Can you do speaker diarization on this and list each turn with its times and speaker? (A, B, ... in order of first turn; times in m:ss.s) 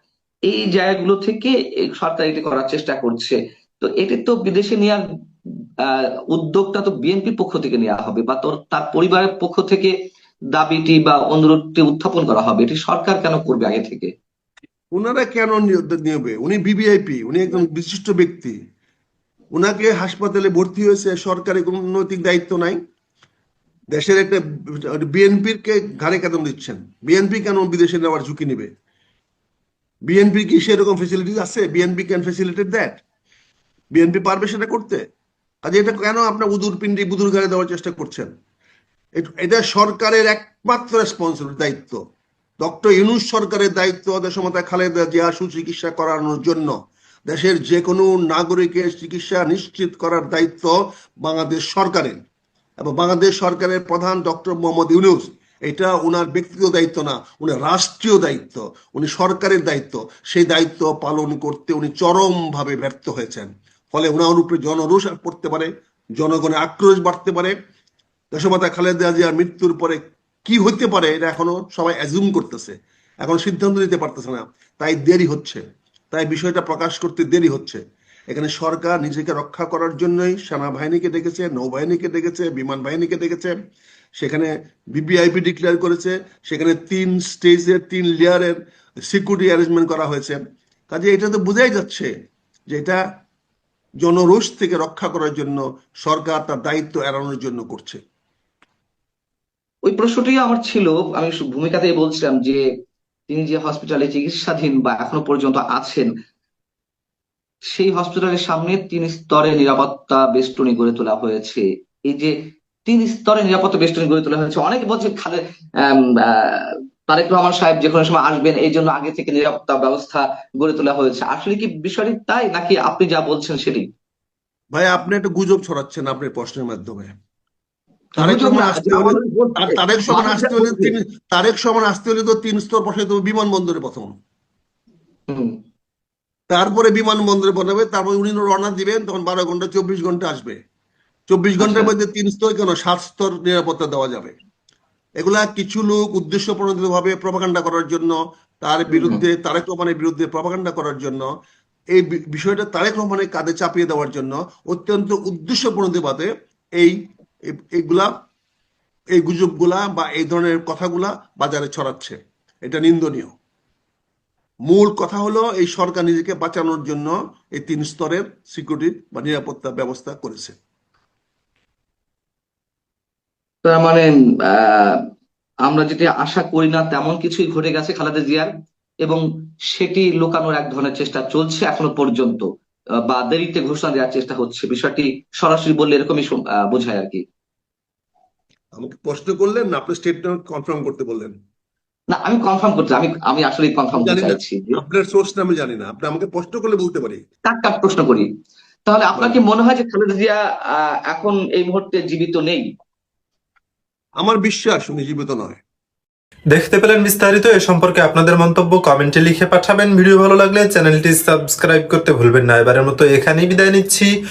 0:00.5-0:05.0 A
0:05.8-0:09.9 A
0:10.5-0:14.1 A
0:15.0-0:18.6 B
0:19.5-0:22.8 B
0:23.9-0:28.7 B
0:30.1-0:33.0 B
0:33.9-0:35.0 B
0:35.6-0:38.3 B
0:39.2-0:42.0 B
0:42.6-0:46.7 B
0:47.3-0:52.2 B
0:52.8-1:07.5 B
1:08.3-1:23.6 B
1:24.2-1:28.6 B
1:29.1-1:30.4 B
1:30.9-1:32.1 B
1:32.7-1:33.0 B
1:34.0-1:38.0 B
1:39.9-1:42.6 A
1:43.3-1:46.1 A
1:47.7-1:52.3 A
1:52.9-2:03.9 A
2:04.7-2:07.1 B
2:08.2-2:10.9 A
2:08.2-2:14.1 B
2:15.3-2:15.6 A
2:16.5-2:20.6 B
2:21.3-2:24.3 B
2:21.6-2:21.9 A
2:25.2-2:31.3 B
2:28.9-2:29.2 A
2:31.9-2:37.0 B
2:37.5-2:38.1 B
2:39.2-2:43.3 B
2:44.7-2:50.6 B
2:53.6-2:55.0 A
2:55.7-2:58.5 A
2:59.0-3:02.4 A
3:03.1-3:07.2 A
3:08.8-3:11.4 B
3:12.1-3:14.8 A
3:14.0-3:17.2 B
3:17.5-3:18.3 A
3:18.9-3:22.7 A
3:19.2-3:19.4 B
3:24.2-3:25.6 B
3:26.5-3:34.1 C